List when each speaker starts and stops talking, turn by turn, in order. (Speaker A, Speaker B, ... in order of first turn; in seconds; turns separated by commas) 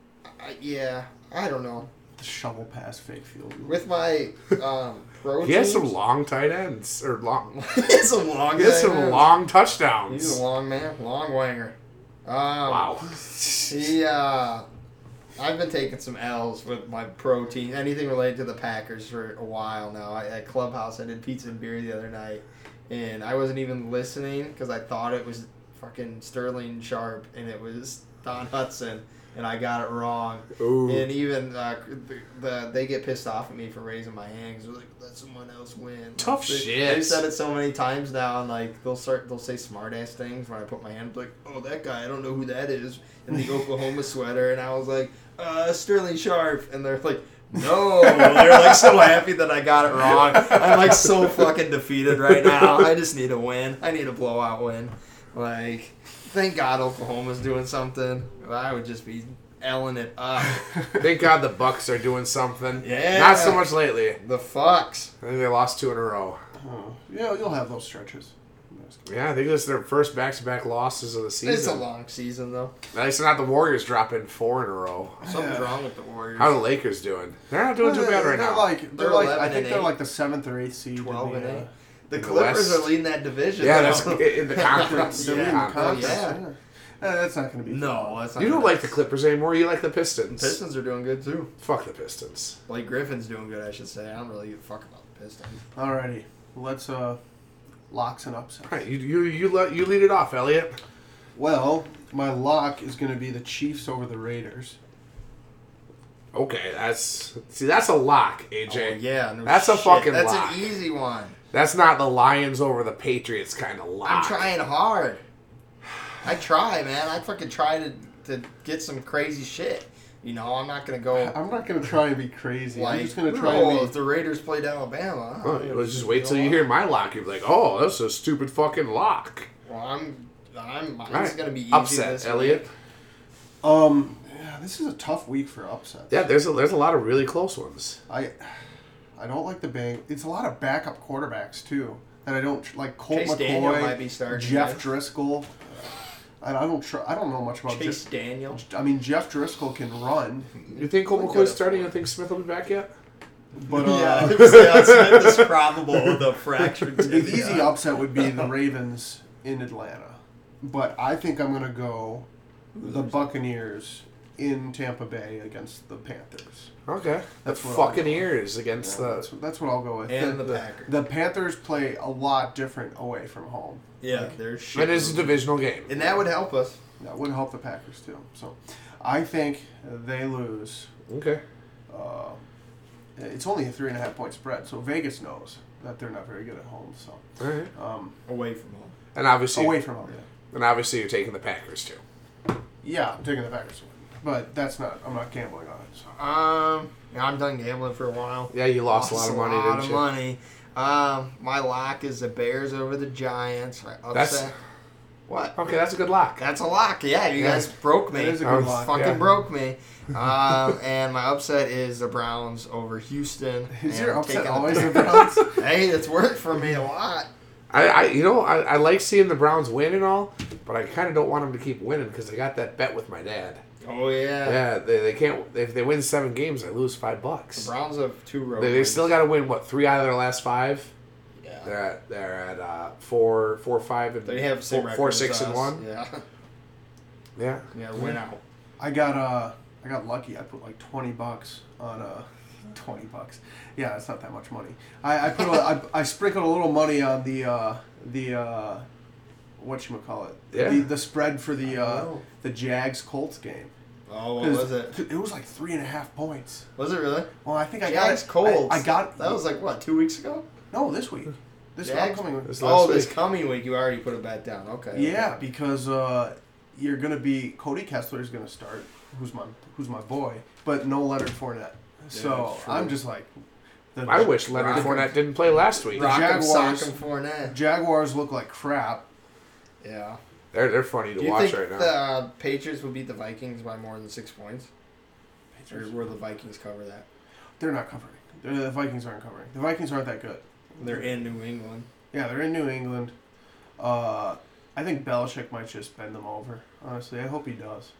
Speaker A: 0.3-1.9, Speaker B: 2.2-3.8, Speaker A: 3.7-5.9, Speaker C: 5.4-7.6, Speaker A: 7.5-9.3, Speaker C: 8.6-10.4, Speaker A: 10.1-12.9, Speaker C: 12.7-13.1, Speaker B: 13.3-13.6, Speaker A: 13.7-14.7, Speaker A: 15.3-60.8, Speaker C: 30.6-31.0, Speaker C: 36.2-37.2, Speaker C: 61.0-64.2, Speaker A: 62.8-65.1, Speaker C: 65.2-66.4, Speaker B: 66.6-69.1, Speaker C: 69.0-71.8, Speaker A: 71.4-72.8, Speaker C: 72.9-75.2, Speaker B: 75.2-75.7, Speaker A: 75.2-76.6, Speaker C: 76.4-78.7, Speaker B: 77.8-81.7, Speaker A: 79.0-79.9, Speaker A: 81.0-86.4, Speaker C: 82.2-82.9, Speaker C: 83.6-86.2, Speaker B: 83.6-88.2, Speaker A: 87.7-88.9, Speaker C: 88.4-90.6, Speaker A: 90.3-91.5, Speaker C: 91.6-92.6, Speaker A: 92.7-95.6, Speaker B: 95.7-97.2, Speaker B: 97.9-98.8, Speaker C: 98.7-100.8, Speaker B: 101.3-104.8, Speaker C: 106.3-110.6, Speaker A: 108.7-111.3, Speaker C: 111.5-114.5, Speaker A: 114.0-115.2, Speaker A: 116.2-121.3, Speaker B: 121.1-123.9, Speaker A: 122.7-126.7, Speaker C: 125.4-129.5, Speaker A: 129.6-132.7, Speaker C: 131.1-132.6, Speaker B: 133.6-136.2, Speaker C: 136.1-138.0, Speaker B: 138.1-138.5, Speaker B: 139.2-150.5, Speaker A: 143.1-144.8, Speaker A: 147.7-148.6, Speaker A: 150.6-151.9, Speaker C: 150.7-152.9, Speaker B: 153.5-154.6, Speaker A: 153.7-158.3, Speaker C: 154.3-155.5, Speaker B: 157.1-162.3, Speaker A: 162.7-163.2, Speaker B: 162.8-166.7, Speaker C: 166.8-169.3, Speaker B: 167.4-174.3, Speaker A: 170.1-170.9, Speaker A: 174.0-176.8, Speaker C: 174.7-175.9, Speaker B: 177.0-180.9, Speaker C: 181.1-181.4, Speaker B: 181.9-182.4, Speaker B: 183.2-187.2, Speaker C: 187.4-187.7, Speaker B: 187.7-188.1, Speaker A: 188.2-188.9, Speaker C: 189.1-189.8, Speaker B: 189.5-190.2, Speaker C: 190.5-192.0, Speaker B: 192.8-196.1, Speaker A: 196.2-204.5, Speaker C: 198.5-200.0, Speaker C: 204.1-204.5, Speaker A: 205.3-205.5, Speaker C: 205.5-206.4, Speaker A: 206.4-217.3, Speaker C: 207.4-207.7, Speaker B: 208.1-209.1, Speaker C: 208.4-209.2, Speaker B: 213.7-215.6, Speaker C: 217.7-223.6, Speaker A: 223.8-224.6, Speaker C: 224.4-227.7, Speaker A: 227.6-229.2, Speaker C: 228.6-230.9, Speaker A: 231.4-231.7, Speaker C: 231.6-235.8, Speaker A: 234.2-236.2, Speaker C: 237.4-237.7, Speaker A: 237.7-238.4, Speaker B: 238.8-248.9, Speaker B: 249.6-253.7, Speaker C: 250.5-250.9, Speaker A: 251.7-252.2, Speaker A: 254.1-254.9, Speaker B: 254.4-256.7, Speaker A: 256.8-257.3, Speaker B: 257.4-259.4, Speaker A: 257.8-260.5, Speaker B: 260.7-262.7, Speaker A: 261.8-265.3, Speaker C: 262.4-263.1, Speaker B: 264.9-273.3, Speaker A: 272.1-273.0, Speaker B: 273.9-275.2, Speaker C: 274.1-276.1, Speaker A: 274.6-275.0, Speaker A: 275.8-277.6, Speaker B: 275.9-276.9, Speaker B: 277.4-279.0, Speaker A: 279.8-280.2, Speaker C: 280.5-281.9, Speaker A: 281.2-284.7, Speaker B: 285.6-286.0, Speaker A: 285.7-287.1, Speaker B: 287.6-291.0, Speaker A: 290.8-291.9, Speaker B: 292.1-293.1, Speaker B: 293.8-297.9